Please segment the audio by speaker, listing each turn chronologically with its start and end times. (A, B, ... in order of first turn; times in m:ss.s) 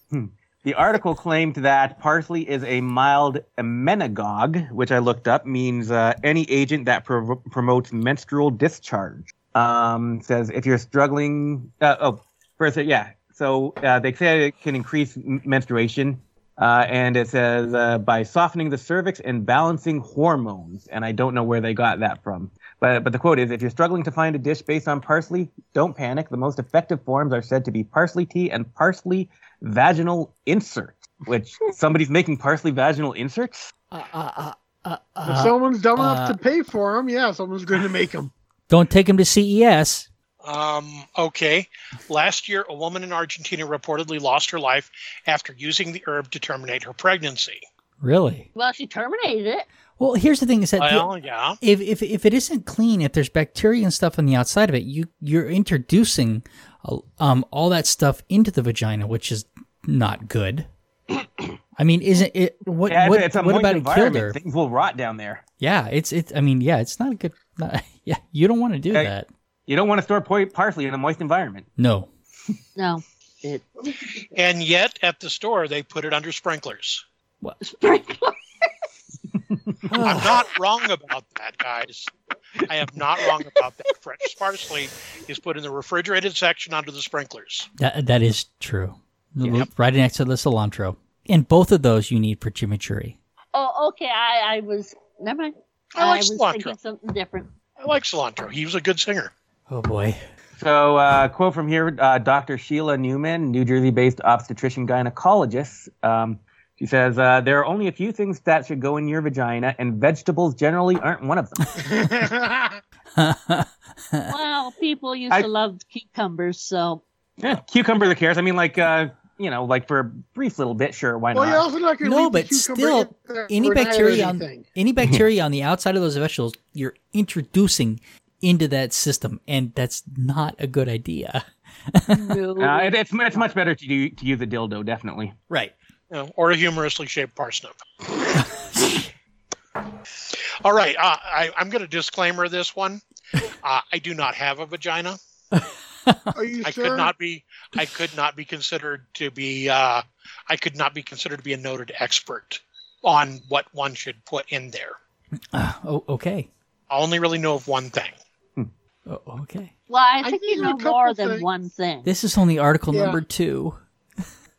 0:00.1-0:33.7 A
0:33.9-0:36.4 B
0:35.2-0:38.3 C
0:38.7-0:40.1 B
0:40.4-0:47.6 D
0:48.0-0:48.5 B
0:48.6-0:49.7 E
0:50.0-0:51.1 B
0:50.8-0:51.6 D
0:51.6-1:00.7 B
1:01.8-1:04.4 B
1:02.9-1:05.4 A
1:05.6-1:09.3 B
1:09.7-1:11.7 A
1:11.8-1:12.1 B
1:12.8-1:13.8 E
1:14.3-1:17.0 D
1:17.6-1:18.7 E
1:19.9-1:20.4 B
1:20.0-1:27.7 D
1:27.8-1:33.2 B
1:29.4-1:29.7 A
1:33.5-1:37.5 E
1:36.0-1:36.8 D
1:37.8-1:39.3 D
1:39.7-1:40.2 B
1:40.6-1:51.8 A
1:51.8-1:52.8 C
1:53.2-1:54.3 B
1:54.3-1:57.0 E
1:57.4-2:01.6 A
2:01.3-2:04.6 C
2:02.0-2:12.4 B
2:05.0-2:05.2 A
2:12.1-2:13.0 E
2:12.6-2:15.4 A
2:16.1-2:17.8 D
2:18.4-2:19.0 B
2:20.3-2:23.0 D
2:23.6-2:25.2 D
2:25.5-2:26.4 B
2:26.4-2:27.1 C
2:26.6-2:35.0 D
2:35.5-2:36.5 B
2:36.9-2:38.2 D
2:39.1-2:39.7 B
2:39.9-2:42.1 E
2:40.2-2:41.5 C
2:42.0-2:43.8 B
2:42.9-2:43.2 C